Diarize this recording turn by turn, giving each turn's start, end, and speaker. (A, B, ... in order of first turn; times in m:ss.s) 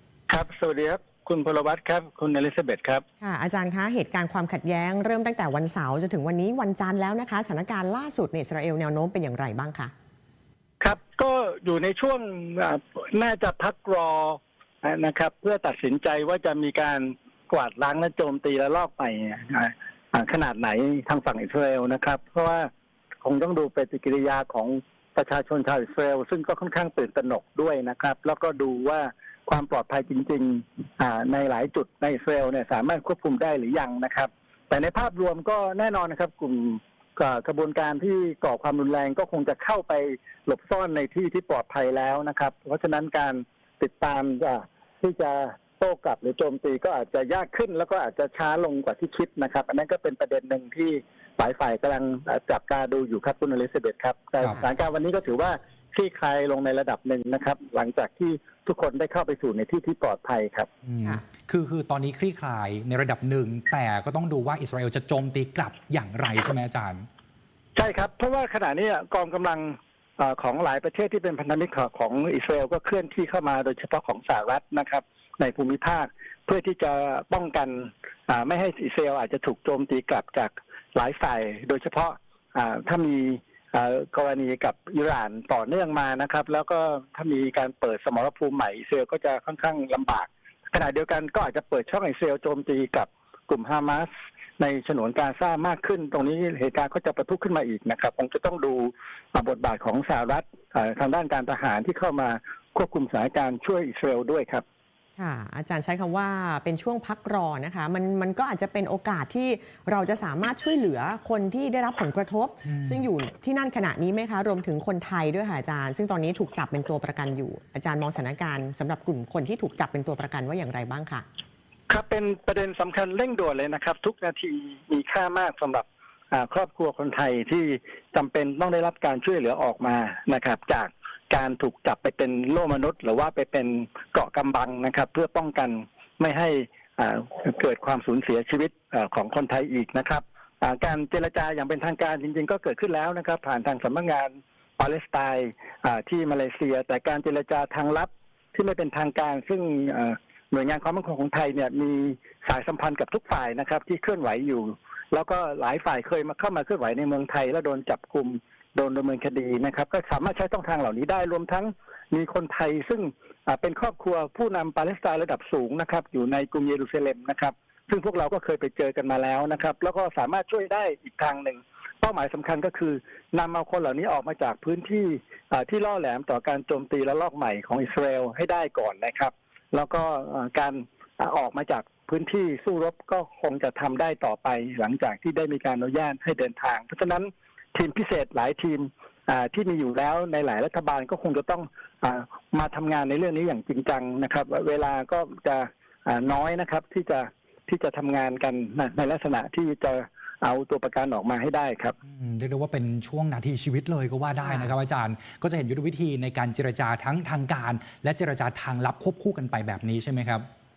0:00.3-0:03.0 A
0:03.2-0:09.9 B
0:10.8-0:22.7 A
0:23.2-1:00.7 A
1:00.8-1:07.0 C
1:07.8-1:44.6 A
1:45.2-2:01.2 B
1:52.6-1:53.0 C
2:01.9-3:21.9 A
3:22.0-3:30.4 C